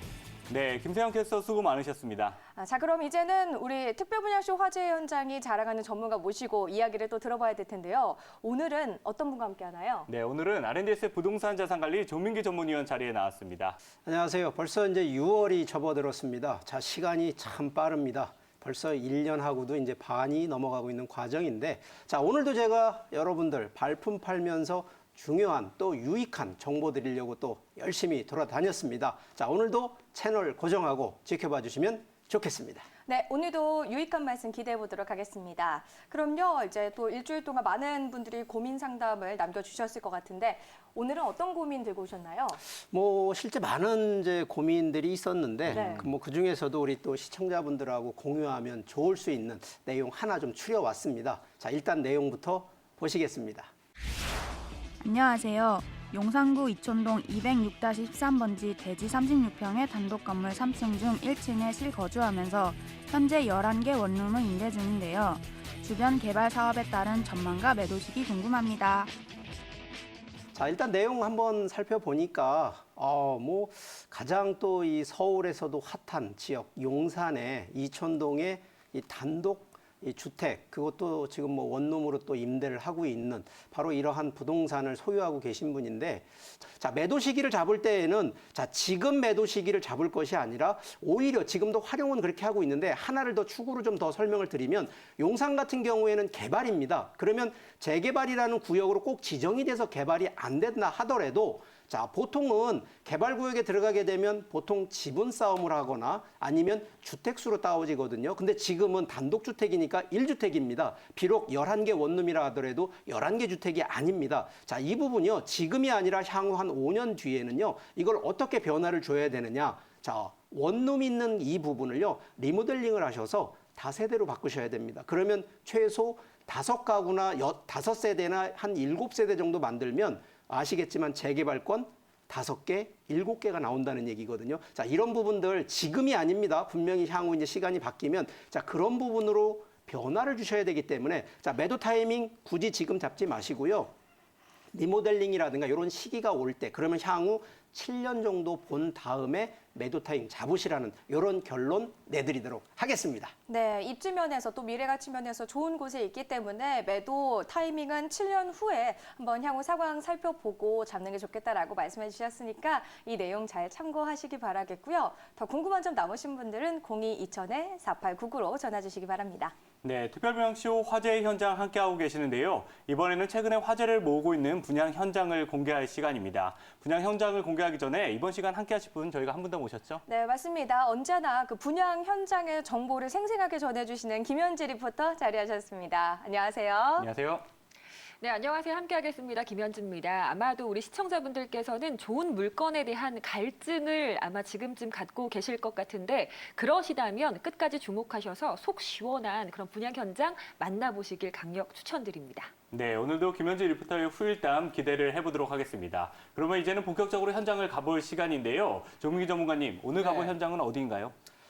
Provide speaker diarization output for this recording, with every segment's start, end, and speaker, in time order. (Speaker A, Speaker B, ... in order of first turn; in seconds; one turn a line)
Speaker A: 0.5-2.4
Speaker B: 2.6-10.1
Speaker A: 10.1-13.8
Speaker C: 14.1-32.9
Speaker B: 33.1-42.6
Speaker C: 42.9-53.7
Speaker A: 45.7-46.0
Speaker B: 45.7-46.1
Speaker D: 55.0-69.1
Speaker C: 70.5-143.9
Speaker C: 144.7-153.3
Speaker B: 153.5-169.6
Speaker A: 169.8-180.0
Speaker B: 180.1-187.1
Speaker A: 187.0-187.5
Speaker E: 188.2-202.5
Speaker A: 202.7-211.1
Speaker B: 210.0-210.3